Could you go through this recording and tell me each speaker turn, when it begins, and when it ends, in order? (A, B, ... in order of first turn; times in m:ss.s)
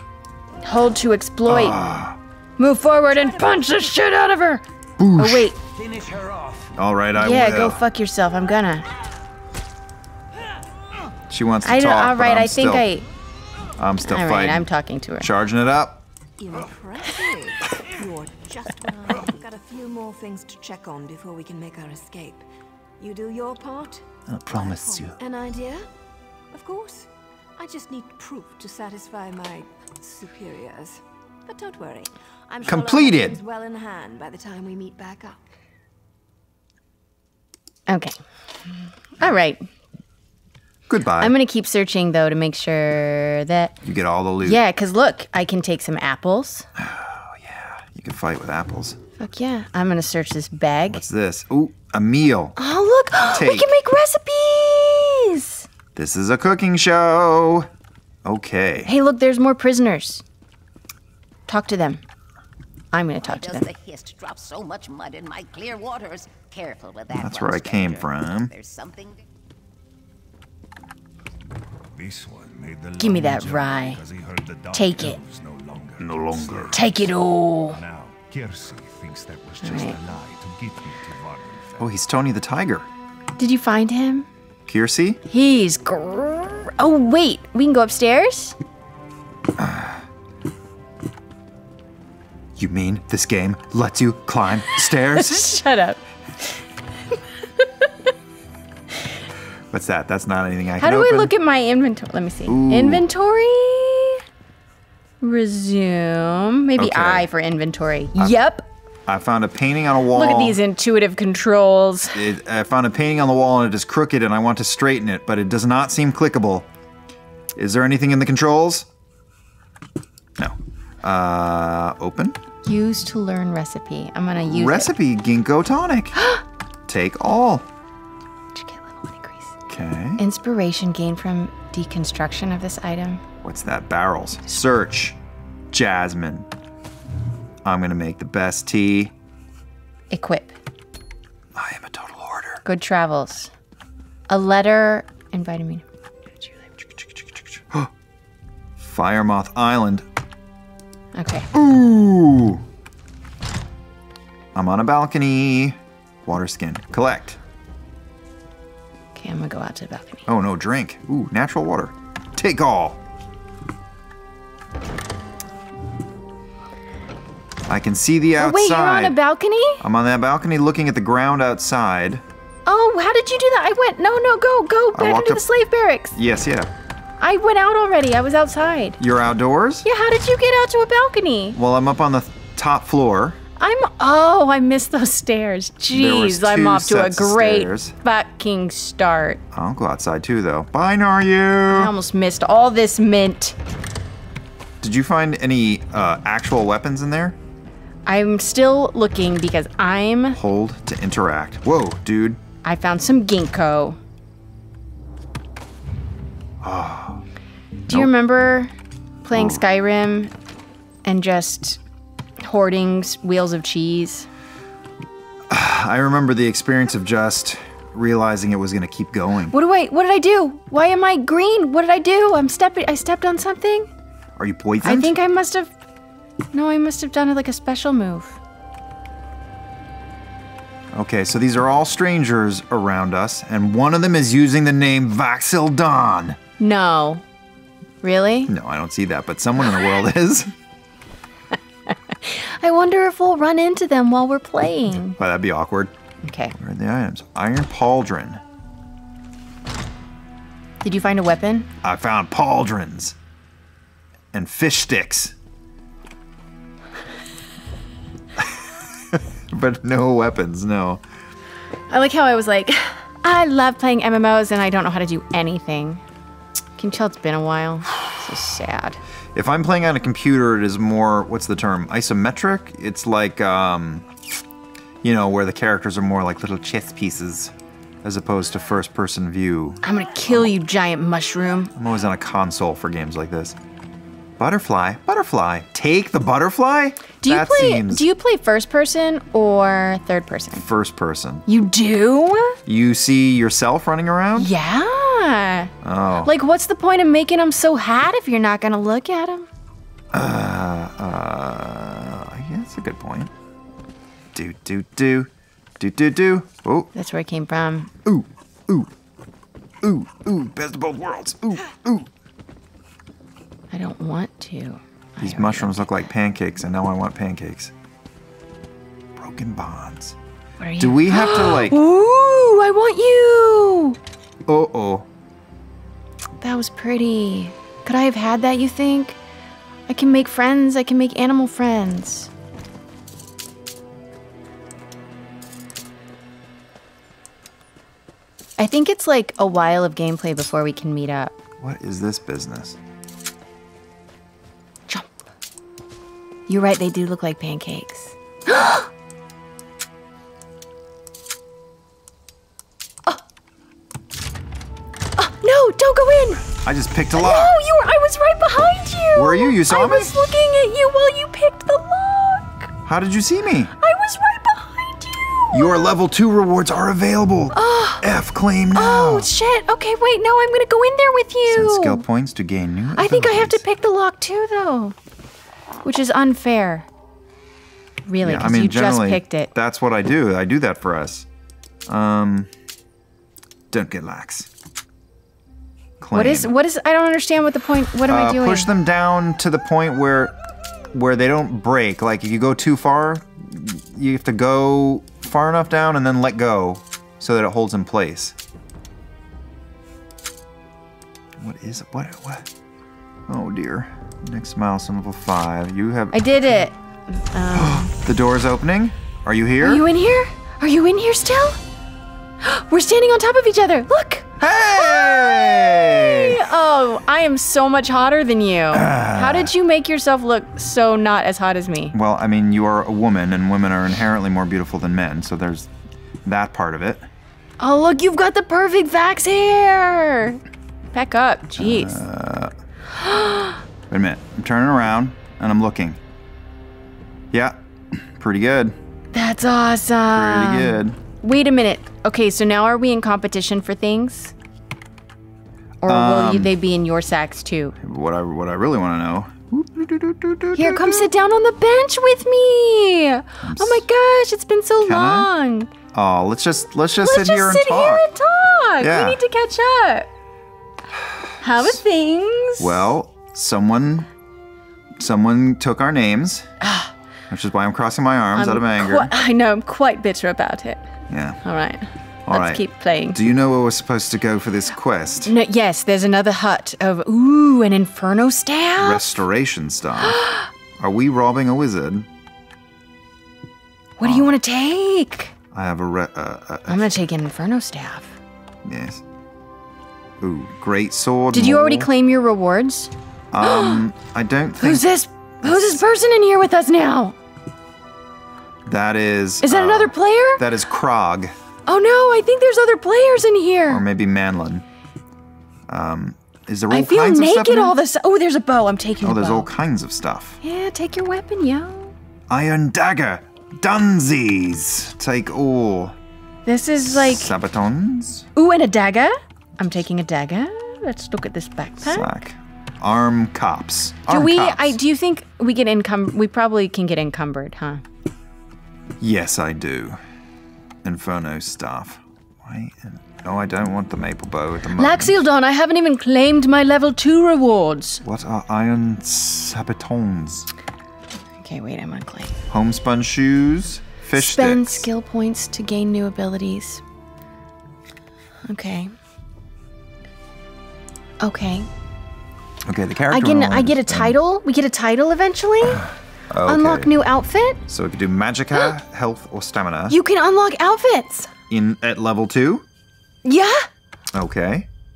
0:00.6-0:01.8 A
0:01.5-0:02.2 B
0:02.6-0:04.6 A
0:05.0-0:05.5 B
0:05.2-0:05.6 A
0:05.6-0:06.8 C
0:06.8-0:07.8 B
0:07.2-0:08.9 A
0:11.3-0:12.9 B
0:11.6-0:13.0 A
0:13.8-0:16.0 B
0:14.0-0:15.3 A
0:16.4-0:22.4 D
0:23.0-0:25.9 D
0:24.3-0:25.2 B
0:26.5-0:35.4 D
0:32.6-0:33.4 B
0:37.9-0:38.2 A
0:39.2-0:39.7 A
0:40.9-0:41.4 B
0:41.2-0:43.8 A
0:43.8-0:44.6 B
0:44.4-0:46.7 A
0:46.8-0:49.0 B
0:49.2-0:51.0 A
0:50.9-0:52.6 B
0:52.6-0:55.7 A
0:53.3-0:53.8 B
0:56.0-0:57.7 B
0:58.2-0:58.9 B
0:58.8-1:00.2 A
1:01.5-1:02.0 A
1:02.9-1:03.7 A
1:03.4-1:09.2 E
1:07.1-1:08.5 B
1:12.0-1:17.1 C
1:13.0-1:14.0 A
1:14.7-1:15.2 A
1:16.0-1:16.8 B
1:16.7-1:17.8 A
1:17.7-1:21.9 C
1:19.6-1:20.0 A
1:21.8-1:22.9 B
1:23.4-1:24.3 A
1:24.7-1:25.2 B
1:25.3-1:28.6 A
1:29.6-1:30.0 B
1:32.6-1:35.6 B
1:35.0-1:36.0 A
1:37.6-1:37.9 A
1:39.7-1:41.3 B
1:40.8-1:44.2 A
1:42.5-1:43.1 B
1:45.2-1:48.7 A
1:46.8-1:47.3 B
1:49.1-1:50.6 B
1:50.1-1:52.2 A
1:52.1-1:56.7 B
1:57.6-1:58.9 B
2:00.4-2:02.4 B
2:02.6-2:04.9 A
2:04.4-2:06.2 B
2:06.1-2:06.4 A
2:06.9-2:07.7 B
2:08.5-2:09.6 A
2:09.7-2:10.2 B
2:10.2-2:13.2 A
2:13.4-2:15.2 B
2:15.7-2:16.5 B
2:17.6-2:19.1 B
2:20.1-2:20.6 A
2:21.6-2:22.6 B
2:22.6-2:23.5 A
2:24.3-2:25.8 A
2:26.8-2:27.9 B
2:28.8-2:30.0 B
2:31.2-2:31.5 A
2:31.5-2:32.6 B
2:34.5-2:37.4 B
2:39.2-2:40.3 A
2:40.3-2:43.0 B
2:47.7-2:49.2 B
2:48.4-2:49.9 A
2:49.8-2:52.2 B
2:52.7-2:56.2 A
2:55.0-2:55.5 B
2:56.2-2:56.7 B
2:57.2-2:59.0 A
2:59.0-2:59.9 B
2:59.8-3:01.6 A
3:01.6-3:03.4 B
3:03.6-3:09.4 A
3:05.9-3:07.9 B
3:09.5-3:11.9 B
3:11.7-3:13.6 A
3:14.8-3:17.4 B
3:18.1-3:20.4 A
3:20.3-3:22.4 B
3:22.6-3:24.0 A
3:26.6-3:27.2 B
3:27.9-3:28.7 A
3:29.2-3:30.3 A
3:29.3-3:29.6 B
3:31.0-3:31.8 A
3:32.4-3:34.3 A
3:35.5-3:39.6 B
3:39.5-3:43.9 A
3:44.4-3:45.2 B
3:44.8-3:45.7 A
3:46.5-3:48.4 A
3:50.9-3:56.4 B
3:56.6-3:57.2 A
3:58.0-3:58.5 A
3:58.5-4:00.5 B
4:01.9-4:05.2 A
4:05.2-4:05.9 B
4:06.2-4:06.6 A
4:06.6-4:08.4 B
4:10.8-4:11.7 A
4:11.8-4:13.2 B
4:14.3-4:15.3 B
4:18.4-4:21.0 B
4:21.9-4:26.0 A
4:26.8-4:29.0 A
4:29.3-4:34.1 B
4:35.0-4:40.6 B
4:39.8-4:41.7 A
4:41.8-4:43.6 B
4:44.4-4:48.1 B
4:47.2-4:50.6 A
4:50.5-4:51.5 B
4:51.5-4:52.6 A
4:52.7-4:54.5 B
4:54.4-4:55.7 A
4:55.8-4:56.3 B
4:56.2-4:59.5 A
5:00.1-5:03.3 B
5:04.3-5:06.9 B
5:06.9-5:07.9 A
5:08.0-5:08.9 B
5:09.8-5:12.1 B
5:13.7-5:15.9 A
5:15.2-5:17.7 B
5:19.2-5:20.2 B
5:20.6-5:24.0 A
5:20.8-5:21.8 B
5:24.5-5:25.1 B
5:26.4-5:29.2 A
5:29.9-5:32.3 A
5:38.6-5:41.3 A
5:41.6-5:42.8 B
5:44.9-5:45.2 A
5:46.5-5:48.9 A
5:55.2-5:56.5 A
5:56.6-5:57.5 B
5:57.1-6:02.7 A
5:59.2-6:00.1 B
6:02.8-6:03.7 B
6:03.8-6:05.8 A
6:05.5-6:09.3 B
6:07.5-6:08.1 A
6:08.8-6:12.0 A
6:11.5-6:13.6 B
6:13.0-6:15.0 A
6:15.8-6:16.9 A
6:18.1-6:19.5 A
6:18.2-6:21.3 B
6:21.9-6:22.5 B
6:23.7-6:24.5 B
6:26.0-6:26.5 B
6:26.1-6:28.7 A
6:28.1-6:30.4 B
6:30.9-6:38.4 B
6:41.4-6:42.5 B
6:43.3-6:46.6 B
6:46.1-6:48.0 A
6:47.5-6:49.9 B
6:49.6-6:51.6 A
6:52.4-7:02.0 A
6:54.4-6:56.5 B
6:58.7-6:59.5 B
7:01.9-7:05.7 B
7:06.2-7:07.1 B
7:07.6-7:10.4 A
7:10.9-7:12.0 A
7:11.6-7:12.5 B
7:13.0-7:13.6 A
7:13.9-7:16.0 B
7:17.3-7:18.8 B
7:19.1-7:24.3 A
7:20.1-7:21.0 B
7:25.8-7:27.8 A
7:25.9-7:26.5 B
7:27.8-7:31.1 B
7:30.6-7:35.7 A
7:33.4-7:33.8 B
7:34.8-7:35.3 B
7:35.9-7:38.0 B
7:37.0-7:40.1 A
7:38.8-7:39.2 B
7:41.0-7:41.8 B
7:41.4-7:42.9 A
7:42.6-7:44.1 B
7:45.0-7:46.5 B
7:46.6-7:46.9 A
7:47.3-7:49.1 B
7:48.4-7:50.8 A
7:51.1-7:51.4 B
7:51.4-7:53.2 A
7:52.3-7:55.3 B
7:55.2-7:59.2 A
7:58.8-8:00.2 B
8:00.0-8:00.5 A
8:00.8-8:02.1 B
8:04.0-8:05.3 A
8:04.0-8:04.3 B
8:05.5-8:07.0 B
8:06.7-8:08.2 A
8:08.6-8:09.0 B
8:10.2-8:11.9 B
8:11.3-8:13.9 A
8:13.3-8:14.9 B
8:14.6-8:17.2 A
8:15.4-8:15.8 B
8:18.7-8:21.4 B
8:19.4-8:20.4 A
8:21.7-8:23.8 A
8:23.7-8:24.6 B
8:25.7-8:27.8 B
8:26.7-8:29.5 A
8:29.0-8:30.4 B
8:30.4-8:31.9 A
8:32.3-8:36.0 B
8:36.5-8:37.3 A
8:36.9-8:38.3 B
8:38.4-8:42.1 A
8:41.8-8:44.8 B
8:44.1-8:47.8 A
8:49.0-8:50.0 B
8:50.8-8:55.2 B
8:54.8-8:58.0 A
8:58.0-9:00.5 B
9:01.4-9:02.4 A
9:02.5-9:04.9 B
9:04.2-9:06.8 A
9:08.5-9:08.9 A
9:11.2-9:11.7 A
9:12.7-9:14.2 B
9:13.1-9:15.9 A
9:15.7-9:16.9 B
9:16.4-9:17.6 A
9:17.7-9:20.0 B
9:19.9-9:21.3 A
9:21.5-9:22.6 B
9:23.2-9:23.7 A
9:24.1-9:24.7 B